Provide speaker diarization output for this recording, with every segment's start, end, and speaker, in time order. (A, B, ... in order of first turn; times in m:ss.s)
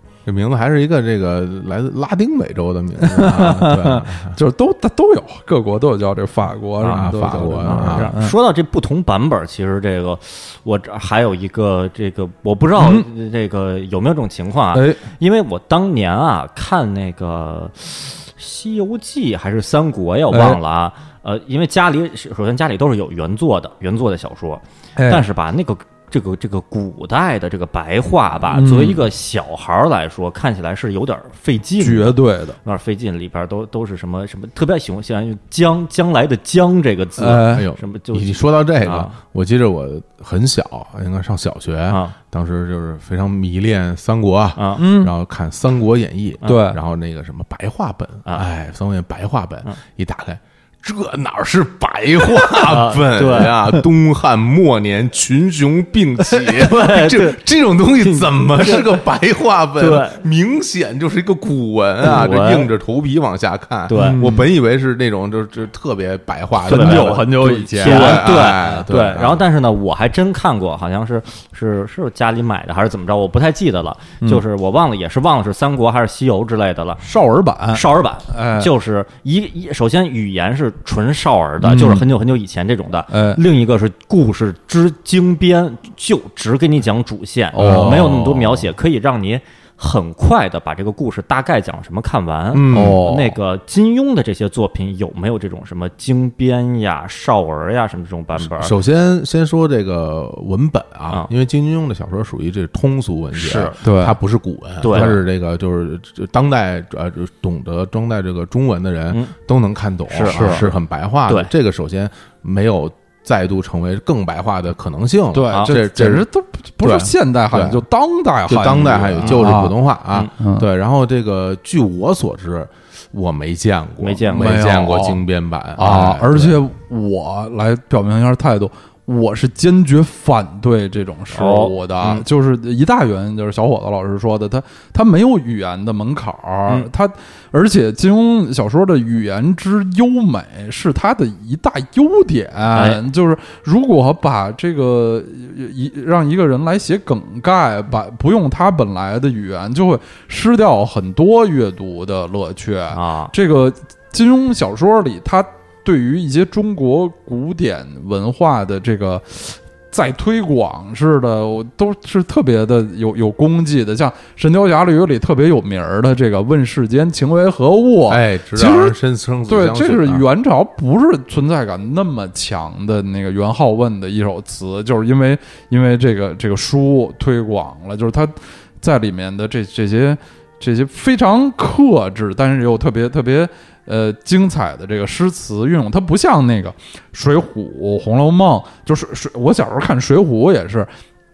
0:00.2-0:04.4 A
0:03.0-0:08.4 B
0:06.8-0:07.1 C
0:06.9-0:08.1 A
0:07.6-0:39.2 C
0:12.8-0:13.1 B
0:14.7-0:15.0 B
0:20.3-0:20.6 B
0:25.0-0:25.3 B
0:28.5-0:29.1 B
0:31.8-0:32.6 B
0:37.2-0:37.7 B
0:37.5-1:09.5 A
0:41.9-0:42.2 C
0:44.6-0:44.8 C
0:44.8-0:45.1 B
0:46.4-0:46.8 B
0:52.5-0:53.6 C
0:56.4-0:57.4 C
0:58.0-0:59.0 C
0:59.8-1:00.2 C
1:02.0-1:02.7 C
1:03.9-1:04.3 C
1:04.0-1:04.5 B
1:06.6-1:08.9 B
1:06.7-1:17.0 C
1:17.0-1:18.7 B
1:17.7-1:38.7 C
1:21.6-1:22.1 B
1:23.1-1:23.4 B
1:27.5-1:28.6 B
1:27.6-1:28.1 A
1:32.5-1:33.1 A
1:32.7-1:33.4 B
1:38.4-1:56.3 A
1:43.4-1:43.8 C
1:43.8-1:44.2 B
1:44.8-1:45.2 C
1:50.1-1:50.7 C
1:50.3-1:50.6 B
1:55.3-1:59.8 B
1:56.8-1:57.8 A
1:58.5-2:06.6 A
2:00.4-2:00.7 B
2:04.0-2:04.6 C
2:04.3-2:05.2 B
2:05.8-2:49.0 B
2:11.3-2:12.2 C
2:22.7-2:23.0 C
2:32.9-2:33.3 C
2:48.1-2:50.3 A
2:49.5-3:10.9 B